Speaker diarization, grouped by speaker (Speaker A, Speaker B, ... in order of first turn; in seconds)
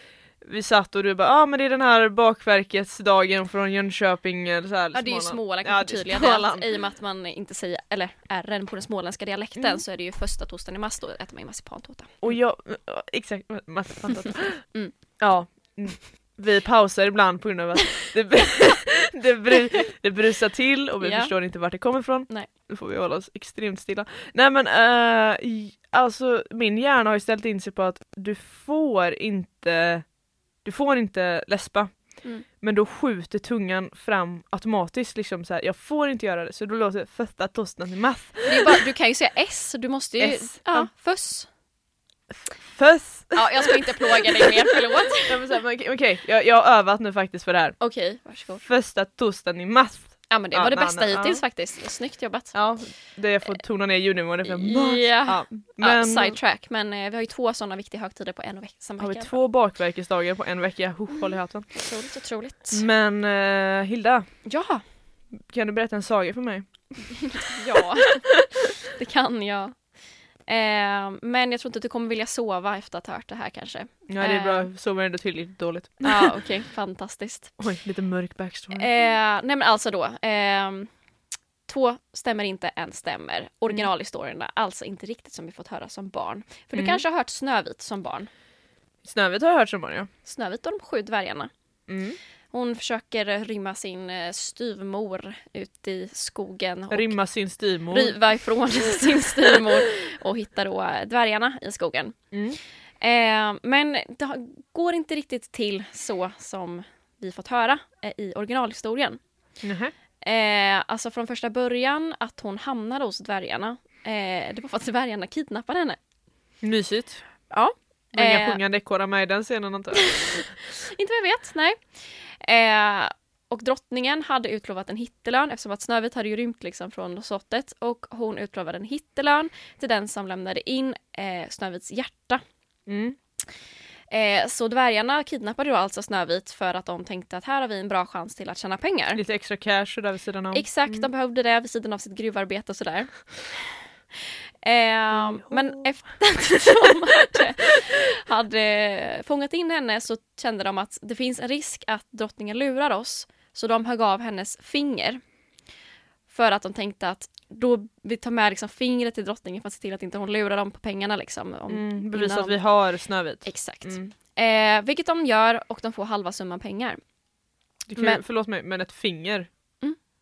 Speaker A: 0.4-6.7, 9.6-9.8, 12.2-14.7, 15.2-30.1, 30.6-38.8, 40.2-40.9, 42.3-44.5, 45.2-47.8, 48.6-51.4, 52.5-56.4, 59.0-61.8, 62.7-64.3, 65.3-67.8, 74.1-76.4, 77.6-78.9, 86.7-87.0, 89.0-90.1, 91.9-92.2, 96.9-98.2, 102.3-102.6, 109.6-109.9, 116.6-117.2, 118.1-120.5, 132.9-133.2, 139.2-141.1, 145.1-145.8, 161.7-164.1, 167.9-169.5
Speaker B: 4.9-12.3, 21.0-21.3, 38.5-41.5, 43.4-45.5, 47.8-48.6, 50.3-52.6, 54.4-59.4, 61.8-62.9, 64.5-64.8, 67.4-68.3, 68.8-69.8, 70.5-74.7, 76.0-77.6, 78.7-80.9, 81.7-88.3, 90.2-91.5, 92.5-97.2, 97.9-102.2, 103.0-109.2, 110.2-116.0, 117.5-118.6, 120.0-132.4, 134.1-139.2, 140.5-143.8, 144.6-155.2, 156.3-162.6, 163.4-167.0, 168.0-168.2